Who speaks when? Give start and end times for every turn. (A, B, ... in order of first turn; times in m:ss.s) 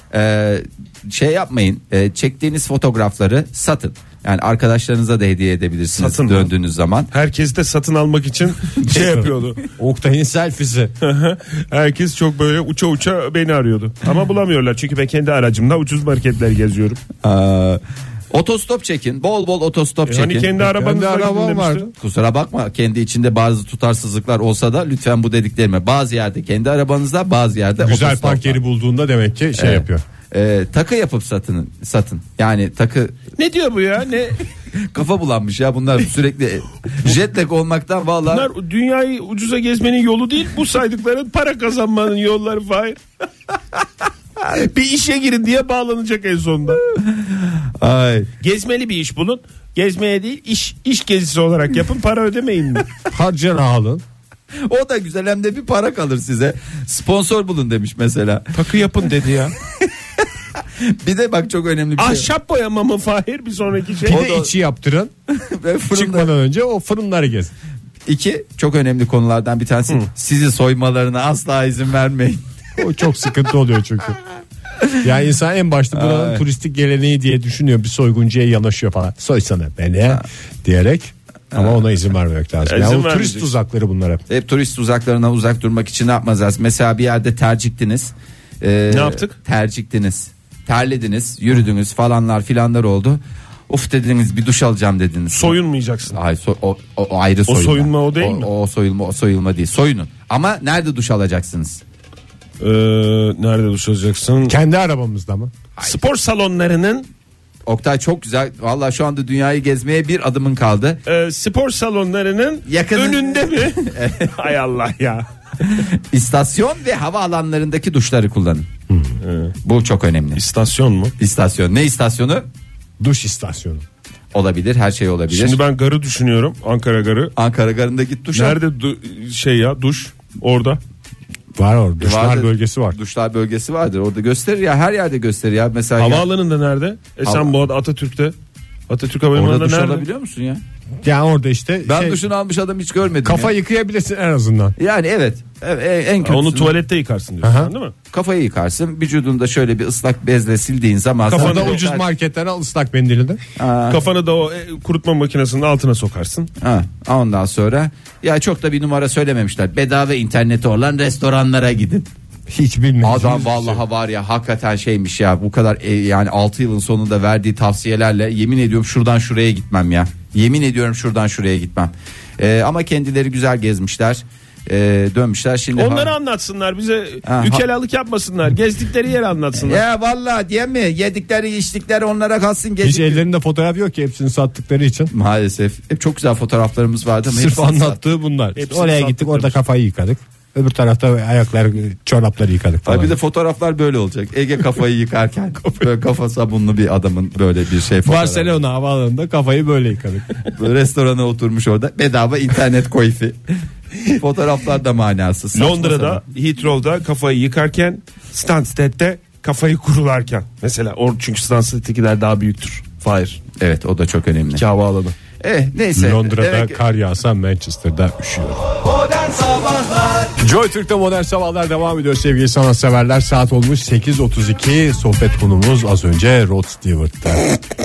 0:00.1-0:07.1 A
0:06.0-0:06.5 B
0:07.1-0:09.7 B
0:09.0-0:10.9 C
0:11.0-0:17.0 B
0:17.2-0:20.5 A
0:20.1-0:21.9 B
0:20.6-0:21.9 C
0:22.0-0:28.6 A
0:27.8-0:30.0 C
0:29.6-0:33.2 A
0:33.4-0:34.4 B
0:34.7-0:38.5 A
0:38.3-0:43.0 B
0:44.4-0:46.8 B
0:47.0-0:48.3 A
0:48.4-0:52.9 B
0:53.1-0:54.0 C
0:54.6-0:58.5 A
0:58.5-0:59.6 B
1:00.6-1:02.3 A
1:02.0-1:04.2 B
1:04.0-1:05.1 C
1:04.1-1:04.5 A
1:05.3-1:06.3 A
1:05.9-1:07.5 C
1:08.1-1:12.4 A
1:12.8-1:14.2 C
1:15.0-1:24.2 C
1:15.9-1:16.4 A
1:21.5-1:21.8 A
1:22.6-1:23.5 B
1:24.3-1:35.6 A
1:28.9-1:29.4 B
1:35.3-1:36.2 B
1:36.1-1:41.8 A
1:37.5-1:38.5 B
1:42.6-1:44.6 B
1:44.5-1:45.5 C
1:45.8-1:47.1 B
1:47.7-1:51.0 A
1:51.1-1:55.3 B
1:52.7-1:54.4 A
1:55.6-1:58.7 A
1:58.9-1:59.2 C
1:59.2-1:59.6 B
1:59.6-2:00.4 A
2:00.4-2:01.1 B
2:01.2-2:02.5 A
2:03.0-2:03.8 C
2:04.3-2:05.6 A
2:05.3-2:07.3 B
2:07.4-2:08.6 A
2:08.3-2:10.8 B
2:11.6-2:13.0 C
2:12.0-2:16.3 A
2:16.0-2:18.4 B
2:17.2-2:17.5 A
2:18.9-2:20.0 B
2:19.3-2:20.6 A
2:21.0-2:22.2 C
2:21.8-2:23.5 A
2:23.2-2:24.8 C
2:24.8-2:26.8 A
2:26.2-2:27.9 B
2:27.4-2:27.7 C
2:28.1-2:32.1 A
2:31.3-2:31.8 B
2:31.3-2:33.4 C
2:33.6-2:34.0 A
2:33.9-2:36.5 B
2:36.6-2:42.1 A
2:42.5-2:43.8 C
2:43.0-2:56.1 A
2:55.8-2:59.8 B
2:57.2-2:57.6 A
2:59.6-3:03.2 A
3:02.8-3:05.1 C
3:05.1-3:08.0 A
3:07.3-3:13.2 C
3:08.6-3:09.6 B
3:12.8-3:18.6 A
3:18.0-3:20.3 C
3:20.4-3:23.4 A
3:24.0-3:26.2 A
3:25.6-3:33.4 B
3:33.6-3:34.6 A
3:34.6-3:35.2 B
3:35.4-3:36.8 A
3:36.0-3:38.6 C
3:40.4-3:47.6 C